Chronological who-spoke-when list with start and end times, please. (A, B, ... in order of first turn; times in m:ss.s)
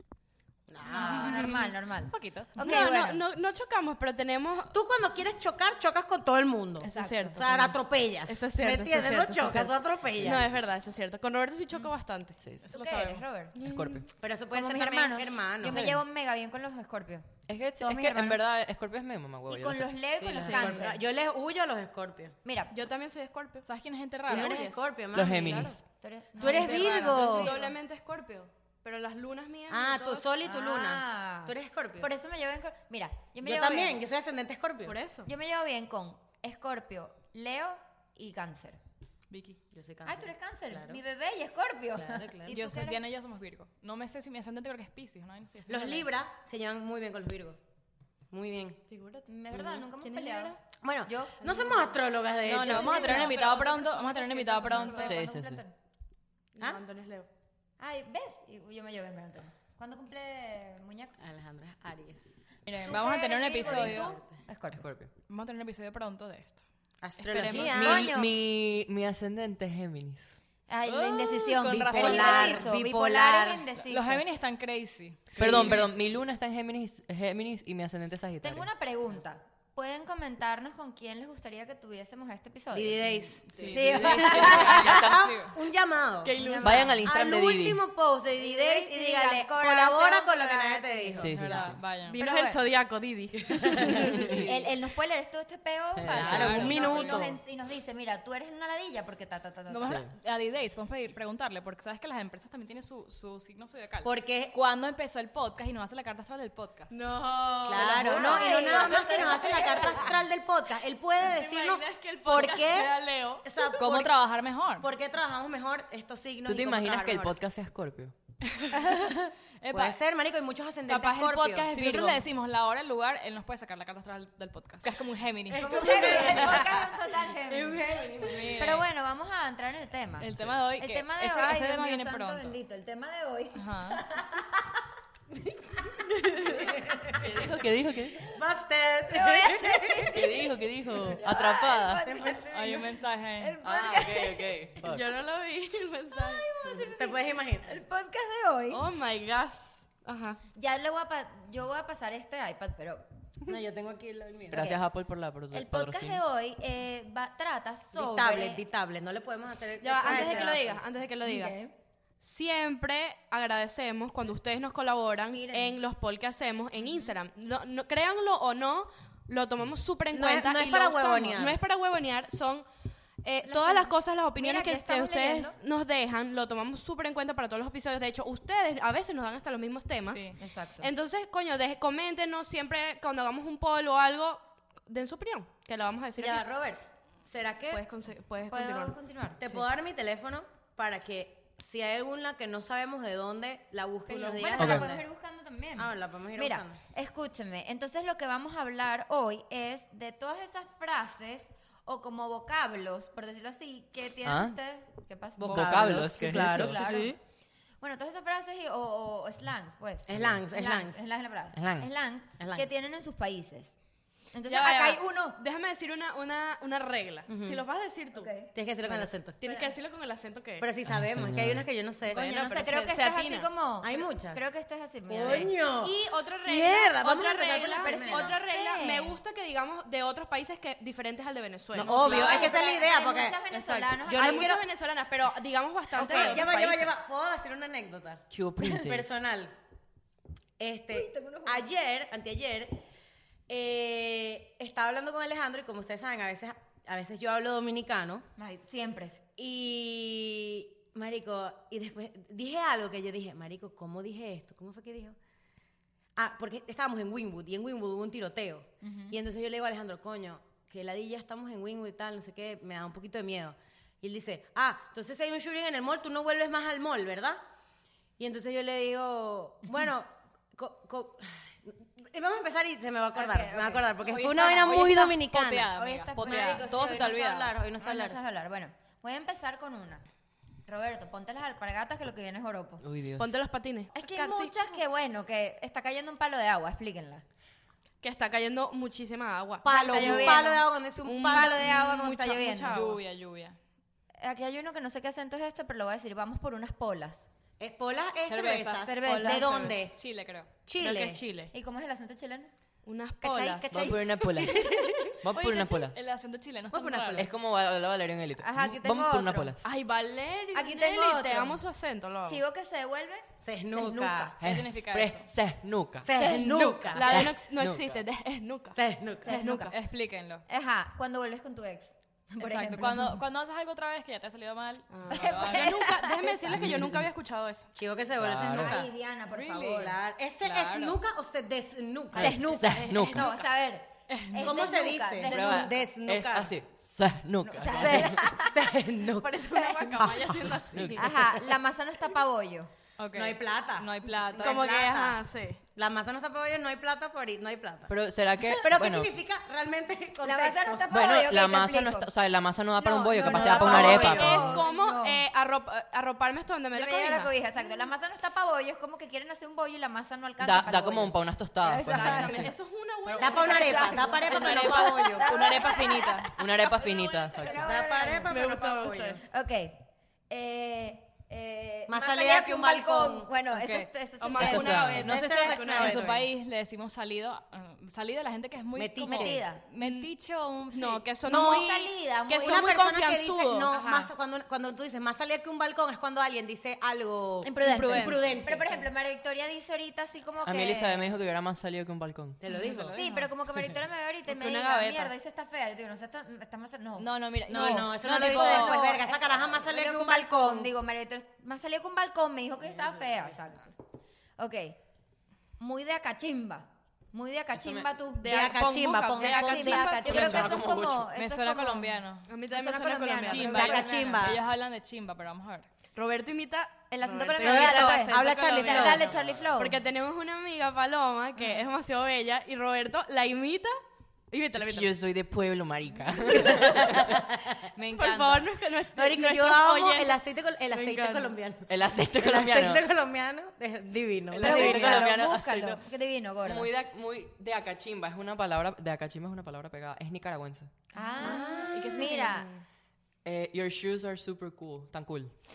0:00.7-0:01.6 A
0:00.8-0:03.2 B
0:01.0-0:01.5 C
0:02.1-0:02.6 C
0:02.6-0:04.7 D
0:04.7-0:10.5 A
0:06.8-0:07.7 D
0:06.8-0:07.7 B
0:08.3-0:12.4 D
0:10.2-0:10.6 E
0:12.4-0:12.6 E
0:12.6-0:13.4 C
0:12.7-0:13.5 B
0:13.6-0:14.1 E
0:13.6-0:14.0 D
0:14.1-0:15.8 A
0:14.5-0:18.4 B
0:17.5-0:19.9 E
0:19.5-0:21.0 B
0:20.2-0:22.4 A
0:20.3-0:20.8 D
0:22.4-0:22.7 B
0:22.7-0:23.7 D
0:23.6-0:24.5 C
0:24.3-0:24.9 D
0:24.3-0:25.8 A
0:25.1-0:25.8 E
0:26.0-0:27.7 B
0:26.4-0:27.5 A
0:26.4-0:27.3 C
0:26.4-0:30.3 D
0:29.7-0:32.1 A
0:30.4-0:34.0 B
0:33.4-0:35.0 A
0:34.8-0:35.3 D
0:35.2-0:38.8 B
0:39.3-0:39.6 C
0:39.7-0:41.0 A
0:40.0-0:43.0 B
0:41.9-0:42.5 A
0:42.5-0:46.1 C
0:45.7-0:47.6 A
0:48.3-0:48.8 A
0:48.9-0:50.6 D
0:49.3-0:51.8 B
0:50.8-0:53.3 A
0:51.4-0:51.9 D
0:52.4-0:55.1 C
0:52.5-0:55.7 B
0:52.7-0:53.9 D
0:54.6-0:55.1 D
0:55.0-0:55.6 E
0:56.6-0:57.3 D
0:57.8-1:01.1 B
1:01.2-1:02.4 A
1:02.6-1:04.1 C
1:02.8-1:04.8 B
1:03.6-1:04.4 A
1:04.7-1:05.1 E
1:05.3-1:06.6 C
1:07.0-1:08.1 A
1:07.2-1:08.0 C
1:07.4-1:07.7 D
1:07.6-1:10.3 E
1:07.7-1:08.3 B
1:10.7-1:14.4 B
1:10.8-1:12.6 E
1:11.9-1:13.6 A
1:12.0-1:12.5 C
1:13.8-1:15.6 C
1:15.3-1:15.9 A
1:15.4-1:18.7 E
1:18.4-1:25.1 B
1:22.7-1:31.7 A
1:23.5-1:25.6 C
1:23.6-1:25.2 E
1:26.2-1:26.9 C
1:26.3-1:26.6 D
1:26.3-1:27.0 B
1:26.6-1:27.8 E
1:28.4-1:32.6 B
1:31.1-1:31.8 E
1:31.4-1:32.2 C
1:31.8-1:34.5 D
1:33.4-1:34.5 A
1:34.0-1:34.4 E
1:34.3-1:40.0 B
1:36.0-1:37.1 E
1:36.1-1:37.3 A
1:36.2-1:37.2 C
1:36.6-1:37.0 D
1:39.7-1:47.0 C
1:39.8-1:40.1 E
1:44.0-1:44.5 A
1:46.9-1:50.2 D
1:47.6-1:54.1 A
1:48.0-1:50.2 B
1:51.2-1:53.5 D
1:53.8-1:54.9 C
1:54.8-1:57.4 A
1:56.4-1:58.1 E
1:58.5-2:00.0 C
1:59.7-2:01.9 A
2:00.9-2:02.2 D
2:01.7-2:06.6 C
2:05.5-2:08.6 A
2:05.6-2:07.8 B
2:08.2-2:08.8 C
2:08.6-2:14.7 B
2:10.2-2:12.6 C
2:13.5-2:14.0 C
2:16.5-2:17.2 A
2:17.2-2:18.2 E
2:18.2-2:20.2 A
2:19.1-2:22.5 B
2:20.1-2:22.0 E
2:21.9-2:22.9 A
2:22.5-2:23.6 C
2:23.4-2:24.6 B
2:23.6-2:25.1 E
2:24.8-2:26.4 D
2:26.1-2:28.8 B
2:26.6-2:27.8 A
2:28.7-2:30.4 D
2:30.5-2:33.0 B
2:33.5-2:34.7 A
2:34.5-2:36.2 E
2:34.5-2:34.8 B
2:35.5-2:38.6 B
2:37.9-2:40.8 A
2:39.8-2:41.7 D
2:40.0-2:40.6 B
2:41.2-2:41.7 B
2:42.2-2:52.7 D
2:45.3-2:45.8 B
2:46.8-2:47.1 B
2:50.1-2:51.6 A
2:53.2-3:06.4 D
2:53.4-2:55.5 B
3:00.0-3:00.4 C
3:00.4-3:00.9 B
3:06.2-3:07.8 A
3:07.7-3:09.6 D
3:08.5-3:09.4 B
3:09.4-3:15.0 A
3:14.1-3:27.1 B
3:14.6-3:14.9 E
3:15.8-3:16.8 A
3:24.2-3:24.6 E
3:25.4-3:27.2 A
3:25.5-3:27.1 E
3:25.5-3:25.8 C
3:27.8-3:33.7 B
3:30.1-3:31.0 A
3:30.1-3:30.4 E
3:31.5-3:31.9 E
3:32.4-3:32.7 A
3:34.3-3:35.4 B
3:34.5-3:38.4 D
3:37.3-3:37.6 A
3:38.1-3:39.0 B
3:38.4-3:39.6 A
3:39.4-3:40.7 D
3:40.6-3:42.2 A
3:40.9-3:41.7 E
3:42.1-3:43.5 D
3:42.1-3:45.5 B
3:43.8-3:44.4 A
3:45.1-3:48.4 A
3:45.2-3:52.7 D
3:47.8-3:49.2 B
3:51.7-3:53.4 A
3:51.8-3:54.5 B
3:53.5-3:56.9 D
3:54.0-3:54.6 A
3:55.9-3:56.4 B
3:56.0-3:59.5 A
3:58.3-3:59.1 E
4:00.6-4:02.8 A
4:00.9-4:01.7 B
4:03.5-4:08.3 A
4:08.4-4:09.2 B
4:09.4-4:15.2 A
4:16.2-4:27.4 A
4:18.8-4:19.2 B
4:28.2-4:38.2 A
4:33.1-4:34.7 B
4:34.0-4:37.6 C
4:35.7-4:36.9 B
4:37.8-4:40.0 B
4:40.6-4:42.8 B
4:42.8-4:43.4 E
4:43.2-4:44.5 D
4:43.9-4:47.2 B
4:48.0-4:53.0 D
4:49.6-4:51.6 A
4:49.7-4:50.6 B
4:51.3-4:52.8 B
4:52.7-4:53.6 C
4:54.2-4:57.3 B
4:57.6-5:00.0 A
4:58.3-5:00.5 C
4:58.8-4:59.7 B
4:59.0-4:59.8 D
5:00.6-5:01.2 A
5:00.8-5:01.5 D
5:01.5-5:02.5 B
5:02.8-5:04.0 D
5:03.2-5:05.2 A
5:03.7-5:06.0 E
5:05.3-5:07.3 C
5:06.7-5:07.3 A
5:07.2-5:09.7 E
5:08.4-5:09.6 B
5:09.6-5:12.4 D
5:10.5-5:11.6 B
5:12.2-5:14.4 B
5:13.4-5:14.4 A
5:14.4-5:16.2 E
5:14.4-5:15.3 C
5:16.0-5:17.3 A
5:16.2-5:16.5 B
5:16.2-5:19.7 D
5:17.0-5:18.0 E
5:18.8-5:19.4 A
5:19.2-5:19.8 B
5:19.7-5:20.4 C
5:20.5-5:23.2 B
5:22.4-5:25.9 C
5:24.9-5:27.7 D
5:25.1-5:26.4 B
5:26.5-5:27.1 E
5:27.7-5:28.9 A
5:28.2-5:28.8 E
5:28.4-5:30.0 B
5:29.3-5:31.0 C
5:29.7-5:33.2 A
5:32.1-5:33.3 E
5:32.1-5:35.7 B
5:32.8-5:33.3 D
5:34.1-5:34.6 C
5:34.4-5:36.5 A
5:35.3-5:35.6 D
5:35.3-5:38.3 E
5:37.4-5:38.6 B
5:37.8-5:40.6 A
5:39.1-5:41.4 D
5:40.7-5:41.2 E
5:41.0-5:42.7 B
5:43.0-5:44.6 C
5:43.1-5:45.2 A
5:44.3-5:45.6 D
5:45.7-5:48.0 A
5:47.9-5:49.1 E
5:48.5-5:50.9 A
5:50.2-5:52.1 B
5:50.9-5:54.6 E
5:52.7-5:55.2 B
5:53.2-5:54.4 A
5:53.6-5:57.8 D
5:56.7-6:02.5 B
6:00.4-6:02.5 E
6:01.8-6:05.1 D
6:03.0-6:06.3 C
6:03.2-6:05.4 A
6:03.4-6:08.4 B
6:06.4-6:07.8 E
6:07.6-6:09.2 A
6:08.3-6:09.2 D
6:08.4-6:09.0 C
6:09.2-6:15.0 B
6:11.9-6:13.3 A
6:13.5-6:13.9 C
6:14.2-6:16.2 D
6:14.4-6:15.1 E
6:15.0-6:21.0 C
6:15.0-6:16.2 A
6:18.8-6:19.4 A
6:19.0-6:19.6 B
6:19.8-6:20.1 D
6:20.7-6:23.8 D
6:21.3-6:22.9 B
6:21.3-6:21.6 A
6:22.4-6:28.9 A
6:23.7-6:24.1 B
6:27.4-6:31.1 B
6:27.6-6:28.2 D
6:30.4-6:32.4 E
6:32.4-6:33.0 A
6:32.5-6:33.3 C
6:32.9-6:43.8 B
6:34.3-6:35.1 D
6:37.0-6:38.8 C
6:37.5-6:40.7 A
6:44.4-6:44.8 B
6:45.6-6:48.6 B
6:47.5-6:47.9 E
6:48.2-6:50.4 D
6:48.2-6:50.6 A
6:49.2-6:54.2 B
6:50.0-6:51.1 E
6:51.1-6:52.3 C
6:52.2-6:54.2 D
6:53.2-6:55.7 C
6:53.5-6:54.4 A
6:55.9-7:03.7 D
6:56.9-6:59.8 B
6:57.4-6:59.0 A
6:59.1-6:59.5 E
7:04.3-7:04.9 D
7:04.6-7:07.2 E
7:06.7-7:07.6 A
7:07.8-7:08.5 C
7:07.9-7:10.2 D
7:08.9-7:15.2 A
7:10.7-7:11.4 D
7:11.7-7:12.9 E
7:14.3-7:15.8 E
7:14.4-7:16.7 B
7:16.4-7:20.7 E
7:20.9-7:22.5 B
7:21.2-7:22.4 C
7:21.2-7:22.0 A
7:21.3-7:22.4 D
7:23.2-7:25.3 E